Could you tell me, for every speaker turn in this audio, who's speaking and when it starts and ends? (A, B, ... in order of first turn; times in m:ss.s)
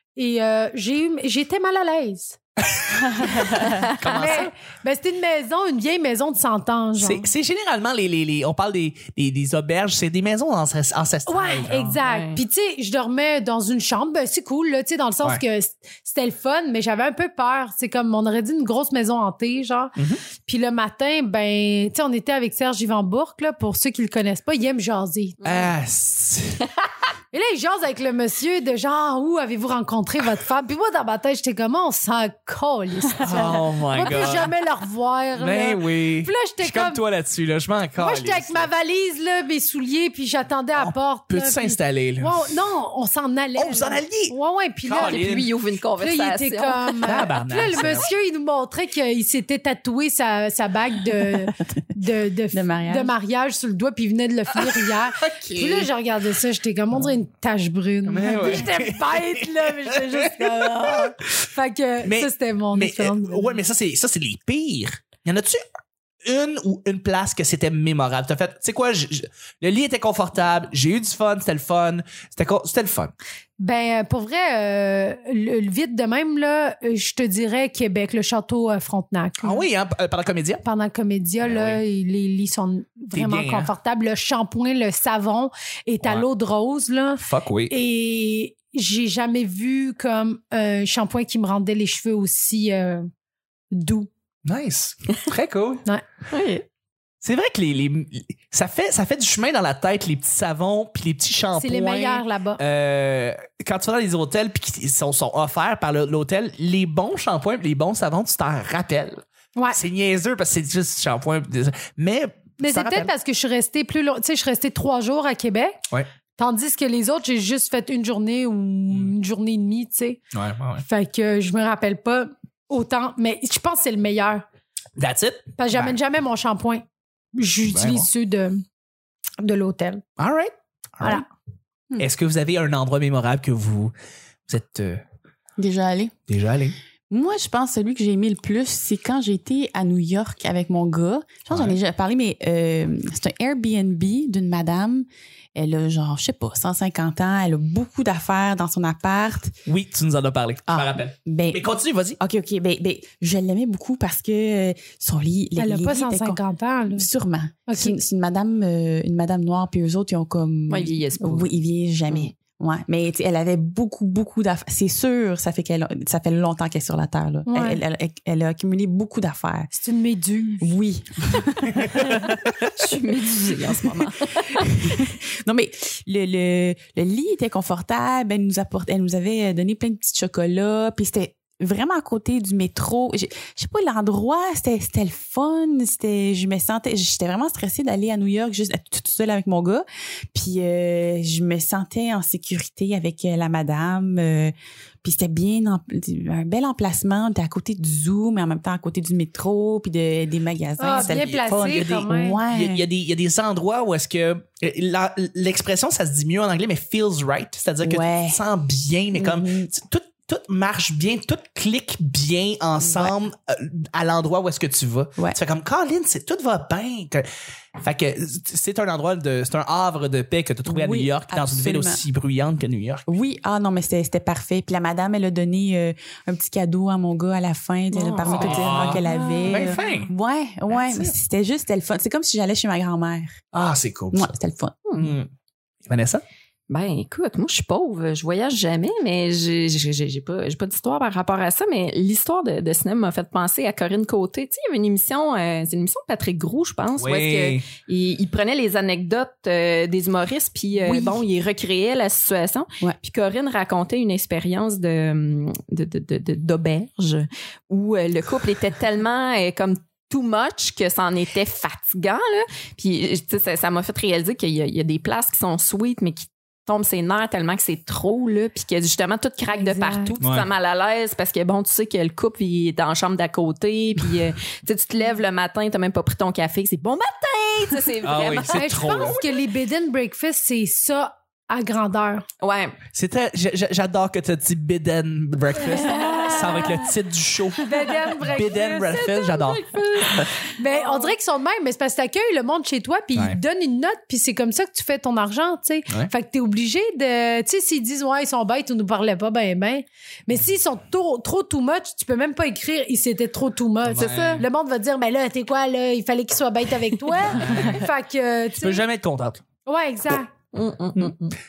0:00.2-0:02.4 A
0:03.1-0:04.5 B
0:03.2-0:07.3 A
0:07.0-0:12.0 B
0:11.3-0:25.4 A
0:12.0-0:12.4 C
0:25.4-0:25.7 C
0:25.4-0:26.7 B
0:27.3-0:37.0 A
0:33.2-0:34.5 B
0:35.4-0:38.7 B
0:38.0-0:45.3 A
0:40.8-0:42.5 B
0:43.6-0:45.5 B
0:44.9-0:47.2 C
0:46.0-1:03.6 A
0:47.0-0:48.1 B
0:52.5-0:53.1 D
0:54.6-0:55.2 B
0:55.4-0:55.8 C
0:58.1-1:01.1 B
1:02.0-1:05.6 B
1:06.2-1:13.1 B
1:13.6-1:19.6 A
1:19.4-1:20.6 B
1:20.6-1:33.0 A
1:21.4-1:21.8 B
1:23.1-1:23.7 B
1:26.0-1:26.3 B
1:27.2-1:27.7 B
1:33.7-1:34.1 A
1:34.5-1:35.8 B
1:36.3-1:36.6 C
1:37.2-1:53.1 B
1:41.6-1:42.6 A
1:52.6-1:55.8 A
1:56.4-2:00.2 A
2:00.3-2:00.8 B
2:00.8-2:04.4 A
2:05.0-2:06.0 B
2:05.6-2:06.8 A
2:07.4-2:08.6 A
2:07.7-2:08.1 B
2:09.4-2:10.0 A
2:10.2-2:11.2 B
2:11.0-2:11.2 A
2:12.0-2:13.9 B
2:14.5-2:15.0 B
2:15.6-2:16.1 D
2:16.3-2:16.8 B
2:17.1-2:29.6 D
2:21.5-2:21.8 B
2:29.7-2:32.2 B
2:30.7-2:31.6 D
2:32.2-2:36.4 D
2:35.6-2:37.1 A
2:36.9-2:49.7 D
2:37.7-2:38.0 A
2:40.7-2:41.5 C
2:47.5-2:47.8 A
2:49.7-2:50.7 A
2:50.6-2:52.4 D
2:52.8-2:54.7 C
2:54.8-3:22.9 D
3:20.8-3:22.4 A
3:21.0-3:37.2 B
3:27.8-3:28.4 D
3:29.1-3:29.7 D
3:32.9-3:33.1 D
3:37.8-3:43.1 B
3:40.6-3:42.0 D
3:43.1-3:53.4 D
3:47.9-3:49.1 C
3:48.2-3:50.1 B
3:50.7-3:51.1 B
3:53.5-3:54.3 B
3:54.1-3:54.8 D
3:54.9-3:55.1 C
3:55.0-3:55.3 B
3:55.9-3:56.2 B
3:56.7-4:39.4 C
4:07.0-4:07.7 B
4:10.8-4:11.2 D
4:29.5-4:30.1 A
4:30.2-4:30.5 B
4:38.0-4:39.2 B
4:38.5-4:42.2 A
4:42.4-4:42.8 C
4:42.9-4:50.3 B
4:45.9-4:46.4 A
4:46.0-4:46.3 C
4:47.6-5:08.9 A
5:03.8-5:04.5 B
5:04.0-5:04.5 C
5:07.1-5:07.8 C
5:07.2-5:07.8 B
5:08.6-5:09.4 B
5:09.6-5:10.3 A
5:10.5-5:11.4 C